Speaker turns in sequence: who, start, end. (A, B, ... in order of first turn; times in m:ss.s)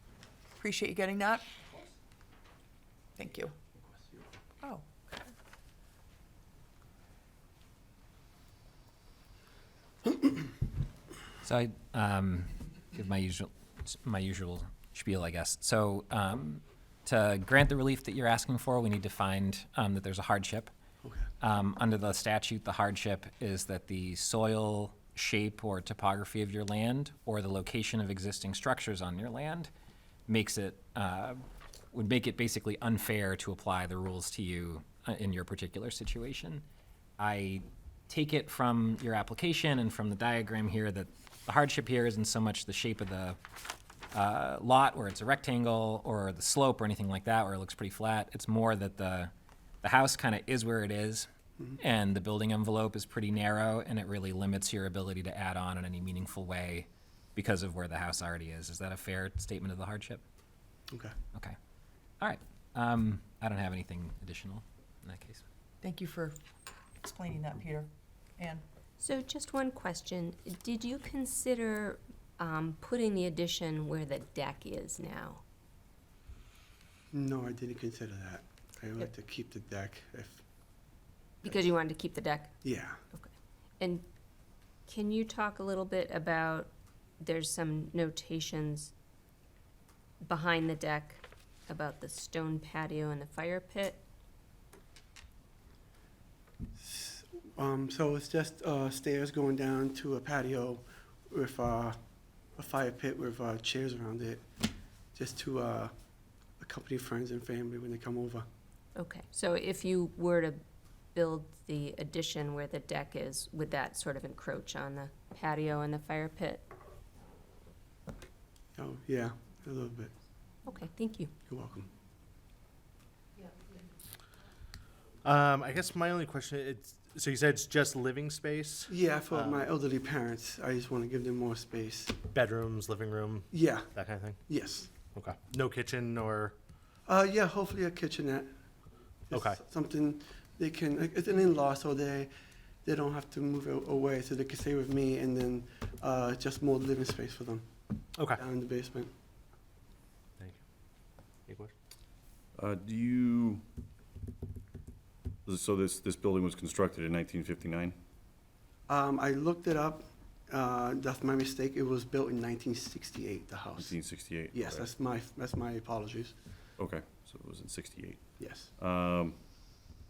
0:00.6-0:01.4 A
0:03.2-0:03.5 A
0:11.4-0:20.7 B
0:21.4-0:29.7 B
0:30.3-0:31.4 B
0:31.9-0:36.6 B
0:37.2-0:43.4 B
0:44.1-1:00.2 B
1:00.9-1:01.1 C
1:02.2-1:05.4 B
1:05.8-1:06.4 A
1:07.0-1:08.6 A
1:09.0-1:15.4 D
1:17.1-1:20.4 C
1:21.4-1:24.0 D
1:22.6-1:23.0 C
1:24.9-1:28.9 D
1:30.2-1:34.0 D
1:36.8-1:44.4 C
1:45.1-1:45.9 C
1:46.6-1:48.5 C
1:48.9-1:50.6 D
1:51.1-1:56.7 D
1:58.8-2:00.1 C
2:00.6-2:01.3 D
2:01.5-2:01.9 C
2:05.2-2:09.7 E
2:08.9-2:12.2 C
2:12.3-2:14.4 E
2:13.5-2:14.9 C
2:15.0-2:16.5 E
2:17.0-2:29.1 C
2:19.3-2:19.6 E
2:28.2-2:28.4 E
2:31.5-2:31.7 E
2:32.6-2:33.6 F
2:35.4-2:38.0 F
2:38.9-2:44.0 C
2:43.8-2:45.0 F
2:44.5-2:46.5 C
2:46.8-2:49.4 F
2:48.4-2:48.7 C